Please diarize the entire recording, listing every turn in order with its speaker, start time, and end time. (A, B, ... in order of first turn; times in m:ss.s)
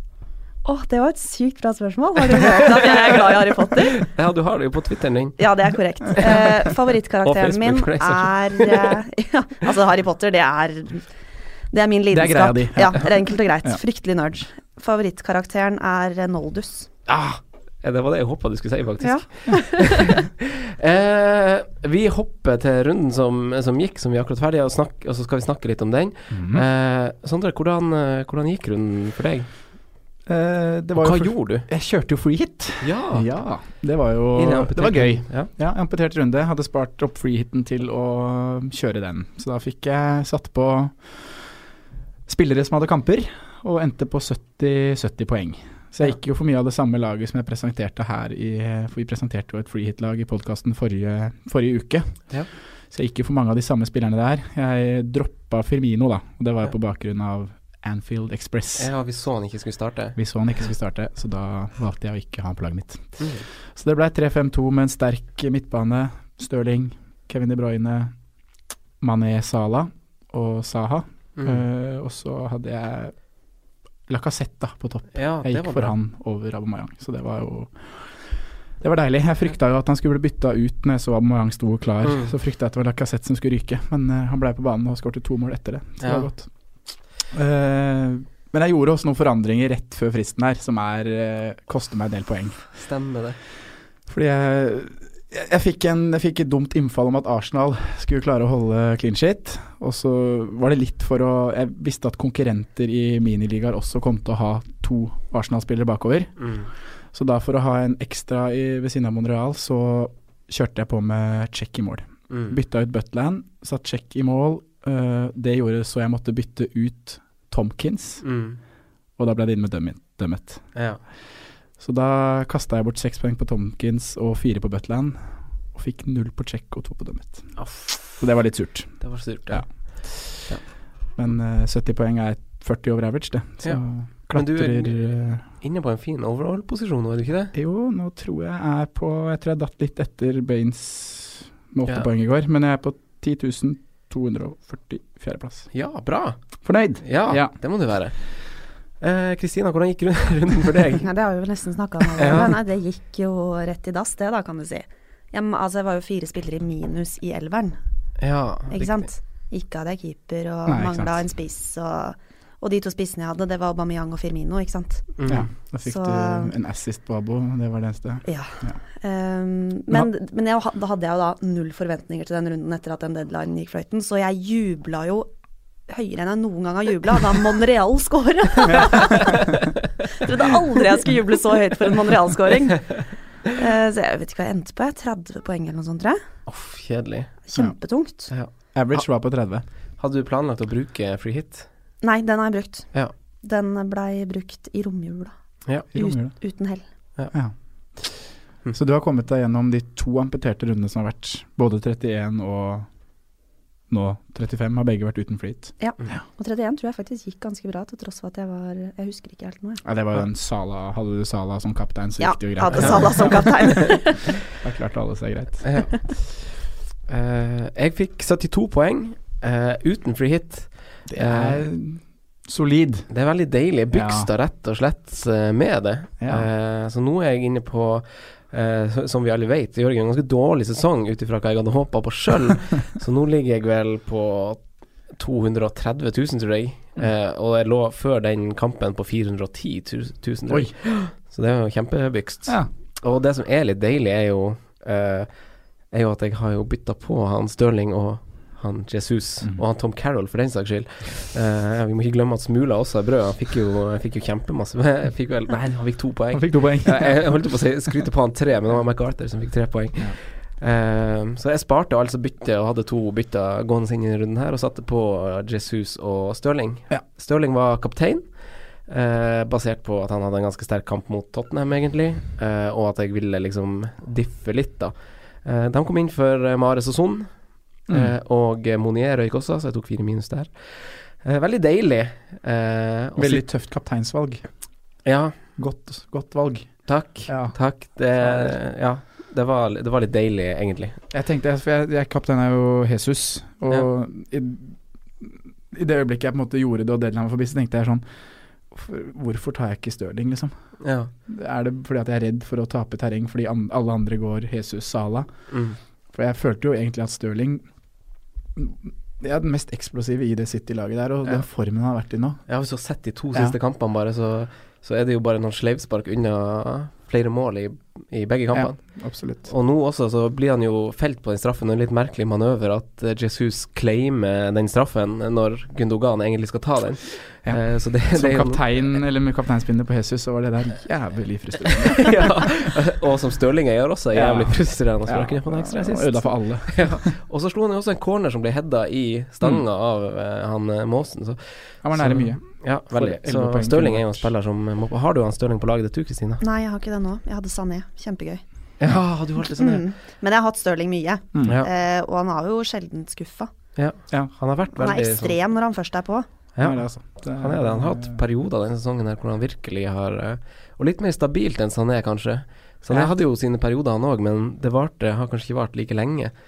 0:00.6-0:04.1 A
0:03.8-0:05.4 B
0:05.4-0:11.1 A
0:06.2-0:06.5 B
0:07.2-0:08.9 B
0:11.7-0:16.9 A
0:12.1-0:13.1 C
0:17.1-0:29.5 B
0:19.0-0:20.1 A
0:26.3-0:26.6 C
0:30.3-0:41.5 C
0:31.0-0:31.7 B
0:32.8-0:33.4 B
0:34.4-0:35.5 B
0:42.3-0:58.9 C
0:58.8-1:00.2 B
1:00.2-1:08.2 C
1:03.2-1:03.4 B
1:09.0-1:13.2 C
1:11.4-1:11.6 B
1:14.1-1:26.5 C
1:15.1-1:15.9 B
1:22.0-1:22.3 B
1:26.0-1:26.3 B
1:27.2-1:32.7 C
1:32.7-1:33.4 B
1:34.1-1:46.5 C
1:46.4-1:46.7 B
1:47.1-1:58.2 C
1:52.3-1:52.6 B
1:58.2-1:58.6 B
1:59.2-2:00.8 C
2:00.8-2:01.0 B
2:01.8-2:07.6 C
2:07.6-2:08.2 B
2:08.2-2:10.5 C
2:09.0-2:10.6 B
2:11.2-2:15.4 C
2:13.6-2:17.5 B
2:17.5-2:25.7 C
2:25.7-2:31.1 B
2:26.6-2:27.6 C
2:31.0-2:37.8 A
2:32.2-2:32.6 B
2:38.2-2:39.1 B
2:38.7-2:45.2 A
2:40.7-2:41.2 C
2:45.2-2:45.5 B
2:45.3-2:48.8 C
2:45.8-2:46.5 A
2:48.2-2:55.3 A
2:55.9-2:59.4 A
2:59.2-2:59.6 B
3:00.1-3:06.2 A
3:06.5-3:07.3 B
3:07.4-3:08.3 A
3:08.3-3:09.0 B
3:08.7-3:09.6 C
3:10.0-3:11.7 B
3:12.0-3:15.3 A
3:15.8-3:16.8 A
3:15.9-3:16.3 C
3:17.3-3:22.9 C
3:23.9-3:26.2 C
3:25.8-3:29.8 A
3:29.8-3:36.1 C
3:32.2-3:34.3 A
3:32.8-3:33.4 B
3:35.6-3:36.6 B
3:37.1-3:41.6 B
3:41.1-3:43.1 C
3:43.1-4:43.4 B
3:43.9-3:44.3 C
3:46.2-3:46.5 C
4:16.3-4:17.5 C
4:37.9-4:38.1 C
4:43.2-4:44.4 C
4:45.0-4:45.4 B
4:45.6-4:47.6 C
4:46.9-4:51.0 B
4:48.2-4:48.6 C
4:51.1-4:58.0 C
4:58.7-5:05.5 C
5:00.8-5:01.1 B
5:05.5-5:05.8 B
5:06.1-5:07.6 C
5:08.6-5:12.4 C
5:12.5-5:29.0 B
5:18.5-5:19.5 C
5:27.4-5:32.4 C
5:31.7-5:46.4 B
5:34.1-5:37.0 C
5:41.8-5:44.3 C
5:46.4-5:48.4 A
5:48.8-5:49.9 B
5:49.6-5:53.5 A
5:51.3-5:51.6 C
5:53.8-5:55.4 B
5:54.8-5:56.3 A
5:56.6-6:06.3 B
5:56.6-5:58.2 C